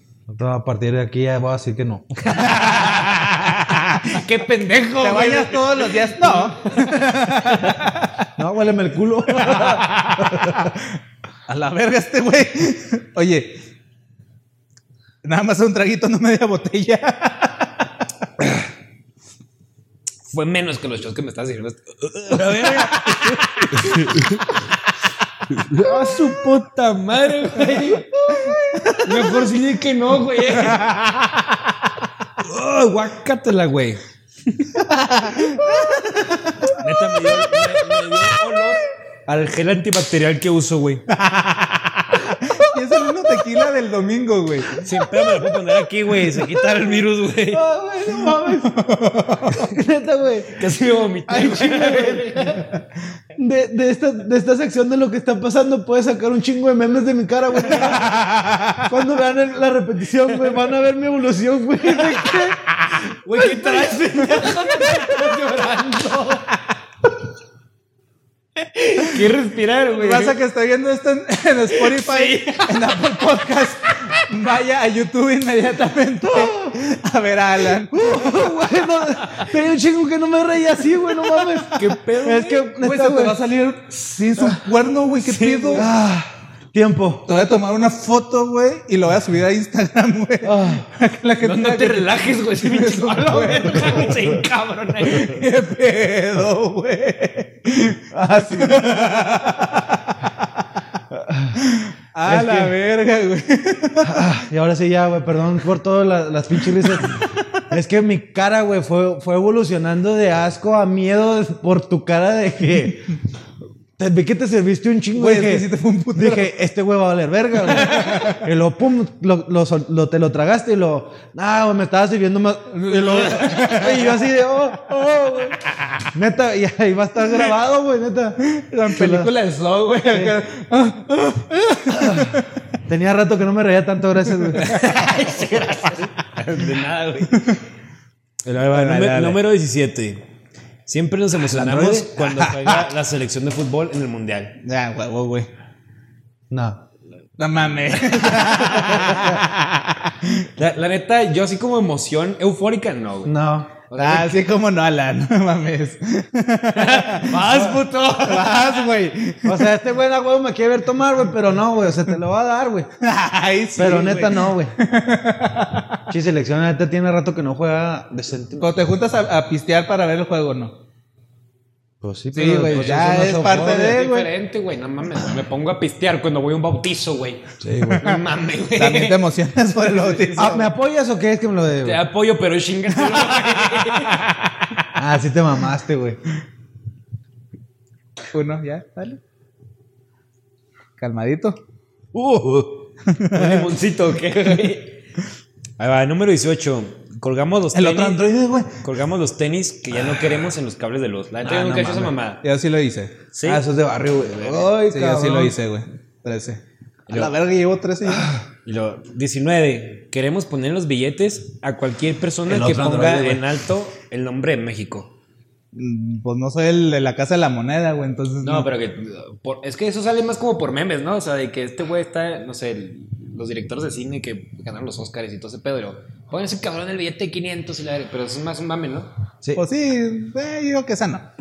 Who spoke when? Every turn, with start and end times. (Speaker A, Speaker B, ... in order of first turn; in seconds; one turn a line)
Speaker A: 0.3-2.2
Speaker B: 2.3-3.0
Speaker C: 2.4-4.2
Speaker B: 4.0-6.8
Speaker C: 5.0-8.2
Speaker A: 8.4-10.7
Speaker C: 9.3-10.9
Speaker C: 11.5-13.6
Speaker C: 15.2-17.9
Speaker B: 20.3-24.5
Speaker B: 25.5-28.1
Speaker A: 28.2-29.3
Speaker C: 28.4-29.0
Speaker B: 29.0-31.3
Speaker C: 30.7-31.1
Speaker B: 32.4-34.8
Speaker C: 34.7-36.8
Speaker B: 36.8-41.1
Speaker C: 41.1-44.8
Speaker B: 44.8-47.6
Speaker A: 47.5-48.8
Speaker C: 48.1-49.7
Speaker A: 49.5-50.7
Speaker B: 50.5-52.6
Speaker A: 51.3-52.7
Speaker A: 53.4-58.2
Speaker C: 57.7-58.9
Speaker A: 58.8-62.7
Speaker B: 62.9-66.5
Speaker A: 63.4-65.2
Speaker B: 68.6-70.4
Speaker C: 69.9-78.6
Speaker B: 71.7-73.0
Speaker A: 76.3-76.7
Speaker A: 77.9-83.5
Speaker B: 81.6-82.8
Speaker C: 82.8-85.9
Speaker B: 85.2-85.9
Speaker A: 85.7-87.5
Speaker C: 87.2-94.3
Speaker A: 90.4-90.9
Speaker B: 91.4-95.4
Speaker C: 95.0-100.5
Speaker A: 98.1-98.9
Speaker A: 101.1-101.6
Speaker C: 101.6-104.3
Speaker A: 102.2-102.7
Speaker A: 104.0-113.2
Speaker C: 106.8-107.6
Speaker A: 114.0-125.6
Speaker C: 115.1-116.5
Speaker C: 117.7-118.4
Speaker C: 122.7-124.3
Speaker A: 126.1-129.3
Speaker C: 128.4-132.4
Speaker A: 130.0-130.4
Speaker A: 131.9-132.3
Speaker A: 132.8-134.7
Speaker B: 134.5-137.6
Speaker B: 138.4-140.2
Speaker C: 138.7-139.4
Speaker B: 140.8-144.6
Speaker A: 141.5-142.4
Speaker C: 144.6-145.5
Speaker A: 146.5-146.8
Speaker C: 147.4-150.5
Speaker A: 149.0-149.3
Speaker B: 150.6-153.3
Speaker A: 153.2-153.8
Speaker B: 153.9-154.4
Speaker C: 154.0-159.7
Speaker B: 156.7-158.7
Speaker A: 159.4-162.9
Speaker C: 163.0-166.0
Speaker A: 163.8-164.8
Speaker A: 166.1-168.8
Speaker C: 168.6-170.8
Speaker A: 172.0-174.0
Speaker C: 172.3-174.3
Speaker B: 172.7-179.2
Speaker A: 177.6-178.1
Speaker C: 178.7-180.7
Speaker B: 179.8-180.6
Speaker A: 180.3-182.0
Speaker B: 181.8-184.5
Speaker C: 183.1-184.3
Speaker A: 184.9-186.2
Speaker C: 188.3-189.2
Speaker C: 191.0-191.6
Speaker B: 192.1-195.0
Speaker C: 193.1-193.7
Speaker B: 195.8-198.2
Speaker C: 197.7-198.8
Speaker B: 198.8-202.4
Speaker A: 201.4-202.2
Speaker C: 202.4-203.2
Speaker B: 203.3-203.6
Speaker A: 203.4-205.5
Speaker B: 204.3-204.7
Speaker C: 204.9-208.3
Speaker B: 207.1-207.3
Speaker B: 208.6-215.1
Speaker A: 212.5-213.4
Speaker C: 215.7-218.7
Speaker B: 218.4-229.1
Speaker C: 229.5-231.3